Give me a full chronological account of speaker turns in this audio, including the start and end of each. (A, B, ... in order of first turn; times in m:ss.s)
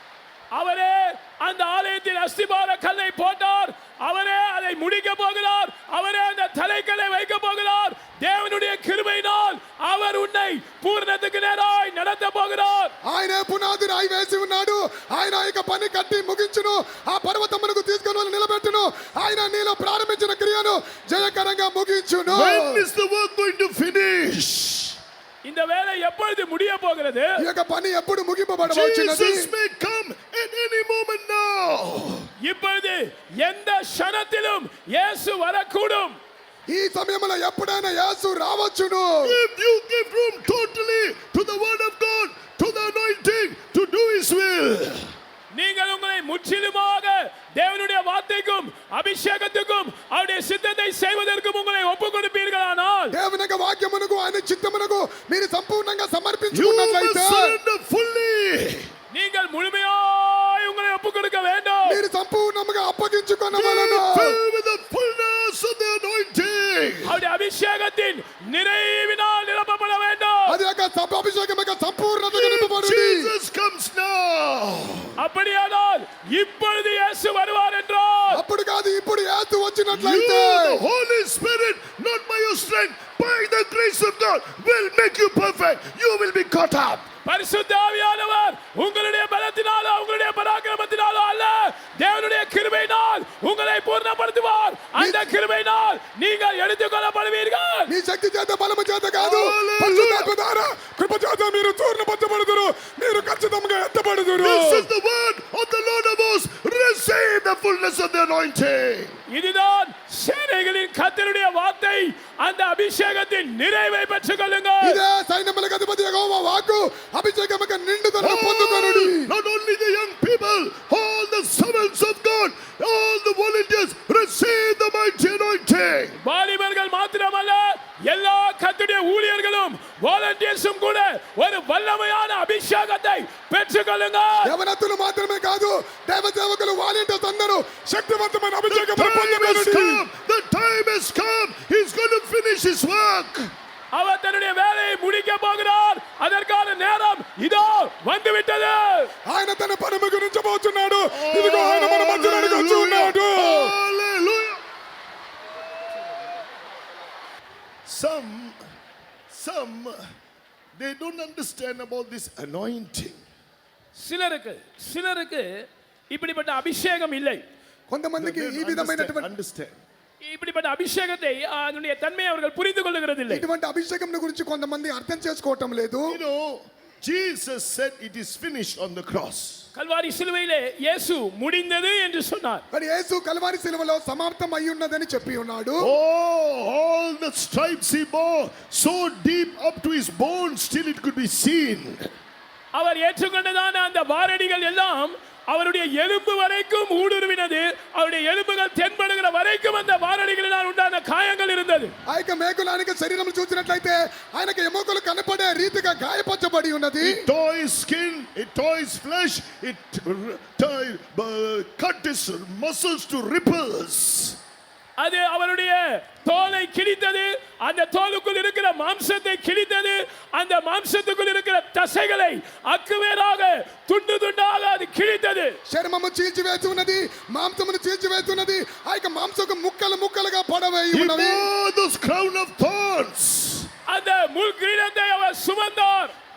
0:00.5-0:12.9 A
0:13.0-0:22.8 B
0:22.3-0:25.0 C
0:25.4-0:27.4 A
0:27.4-0:29.5 B
0:28.6-0:32.3 C
0:32.4-0:36.2 A
0:36.7-0:39.4 B
0:39.2-0:45.0 C
0:45.5-0:53.2 A
0:53.1-0:57.6 B
0:56.5-0:58.9 C
0:59.1-1:02.0 A
1:01.8-1:04.4 B
1:03.5-1:07.2 C
1:07.0-1:10.6 A
1:10.5-1:13.3 B
1:12.3-1:15.2 C
1:15.2-1:18.4 A
1:18.3-1:20.8 B
1:19.9-1:27.0 C
1:27.2-1:37.9 A
1:35.0-1:35.2 B
1:37.9-1:44.9 B
1:39.2-1:40.3 C
1:44.3-1:49.2 C
1:49.3-1:55.0 A
1:54.8-1:59.3 B
1:58.2-2:06.2 C
2:06.2-2:14.5 A
2:14.4-2:20.0 B
2:18.7-2:23.5 C
2:23.9-2:29.1 A
2:29.3-2:33.7 B
2:31.1-2:34.6 C
2:37.8-2:38.6 C
2:39.3-2:40.0 C
2:40.8-2:43.2 C
2:44.0-2:47.4 A
2:47.9-2:49.3 B
2:48.2-2:49.8 C
2:50.2-2:53.4 A
2:53.3-2:56.2 B
2:56.1-2:59.6 C
2:59.7-3:02.6 A
3:02.7-3:05.9 B
3:05.8-3:12.1 C
3:12.7-3:21.9 A
3:22.1-3:27.2 B
3:27.0-3:34.4 C
3:35.0-3:45.6 A
3:45.6-3:51.5 B
3:50.9-3:53.7 C
3:53.9-3:56.1 A